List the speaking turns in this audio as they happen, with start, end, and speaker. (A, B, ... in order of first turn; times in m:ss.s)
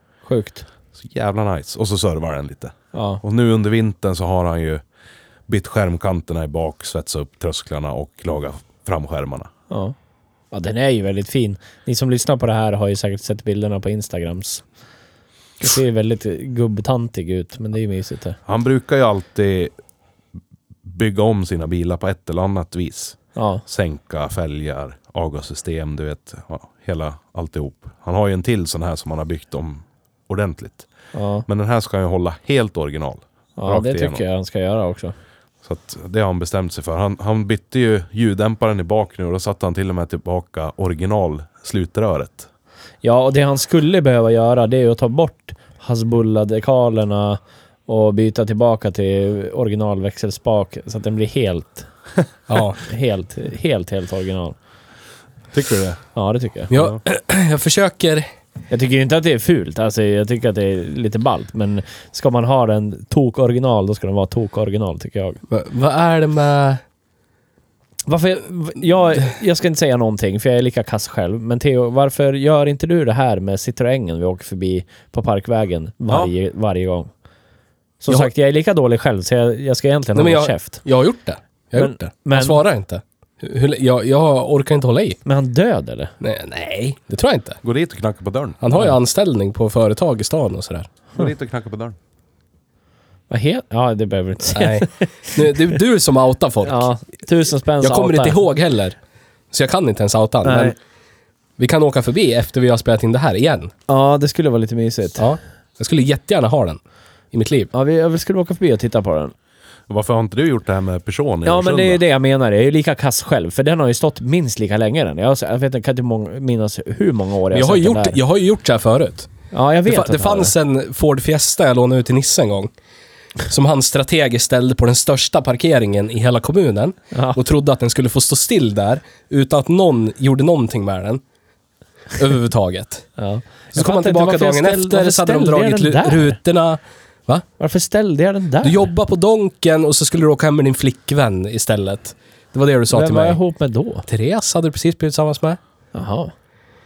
0:00.3-0:00.7 A
0:01.0-0:04.8 B
0:02.9-0:03.2 A
0:05.5-0:09.5 B
0:09.7-0:10.0 A
0:10.5-0:14.6 A
0:15.6-0:18.4 A
0:18.5-0:19.7 B
0:20.8-0:30.9 B
0:23.4-0:23.6 A
0:31.1-0:31.5 A
0:31.5-0:34.2 B
0:33.6-0:35.1 A
0:35.6-0:42.5 B
0:43.0-0:51.9 A
0:52.5-0:52.8 C
0:52.8-0:54.6 A
0:55.5-0:56.0 B
0:56.2-0:56.8 A
0:56.7-0:58.3 C
0:58.7-1:05.4 A
1:05.5-1:06.8 C
1:08.1-1:17.1 A
1:18.0-1:20.8 A
1:20.2-1:25.2 C
1:21.7-1:22.6 A
1:25.3-1:26.1 A
1:26.2-1:27.6 C
1:27.6-1:28.6 B
1:28.6-1:30.9 C
1:31.2-1:32.0 B
1:33.3-1:35.8 A
1:34.5-1:36.9 C
1:36.6-1:38.4 A
1:37.8-1:39.0 C
1:39.5-1:40.8 C
1:40.4-1:40.7 A
1:41.6-1:43.7 C
1:43.9-1:45.3 A
1:45.2-1:46.8 C
1:47.3-1:47.7 C
1:47.7-1:49.3 A
1:49.9-1:52.0 B
1:51.4-1:58.2 A
1:57.5-1:59.3 C
1:59.5-2:00.5 A
1:59.8-2:02.7 C
2:03.5-2:11.2 C
2:07.1-2:07.4 A
2:12.2-2:13.0 C
2:13.2-2:16.4 A
2:13.7-2:17.4 C
2:17.6-2:18.9 A
2:18.6-2:23.4 C
2:22.9-2:24.0 A
2:24.1-2:25.6 C
2:25.9-2:26.3 A